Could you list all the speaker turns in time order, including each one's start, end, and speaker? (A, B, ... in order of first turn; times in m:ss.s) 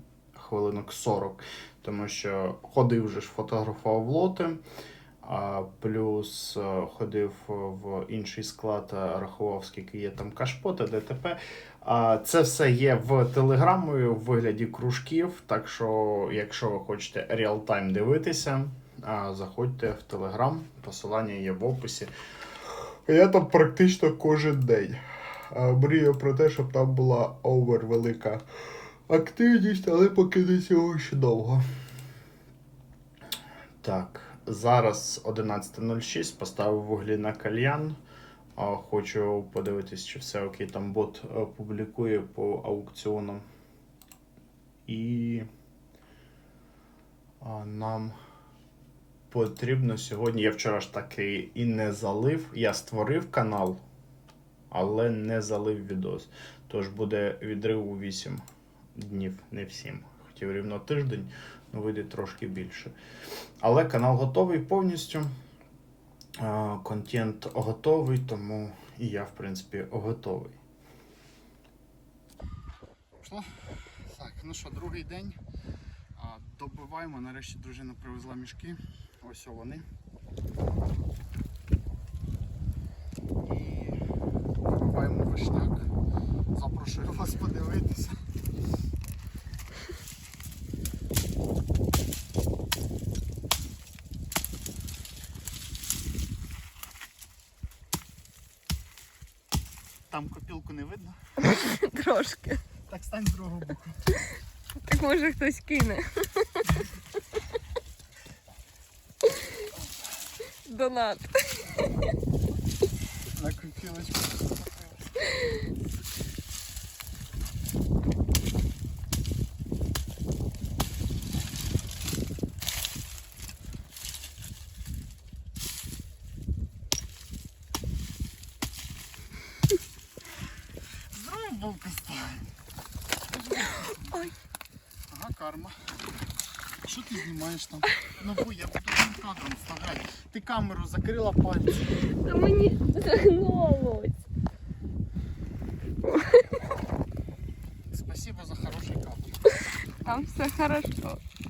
0:00.3-0:04.6 A
0:05.2-0:22.1 A
0:23.0-0:28.4 A
0:29.1-0:31.6 A
0:33.8-0:38.0 A
0:38.6-0:43.4 A
0:44.8-0:45.5 A
0:47.4-0:48.2 A
0:49.3-0:53.8 A
0:54.7-0:58.4 A
0:59.0-1:02.9 A
1:03.6-1:05.3 A
1:06.4-1:10.6 A
1:13.2-1:15.4 A
1:16.2-1:19.8 A
1:23.4-1:24.0 A
1:24.6-1:25.9 A
1:26.5-1:28.2 A
1:40.1-1:41.2 A
1:41.4-1:42.6 B
1:42.9-1:44.0 A
1:44.8-1:46.7 B
1:50.6-1:51.7 B
1:53.3-1:55.1 A
2:11.1-2:12.5 A
2:13.4-2:14.3 A
2:15.1-2:15.9 A
2:16.8-2:21.9 A
2:22.2-2:24.1 B
2:26.0-2:26.4 B
2:27.9-2:30.3 A
2:30.0-2:31.2 B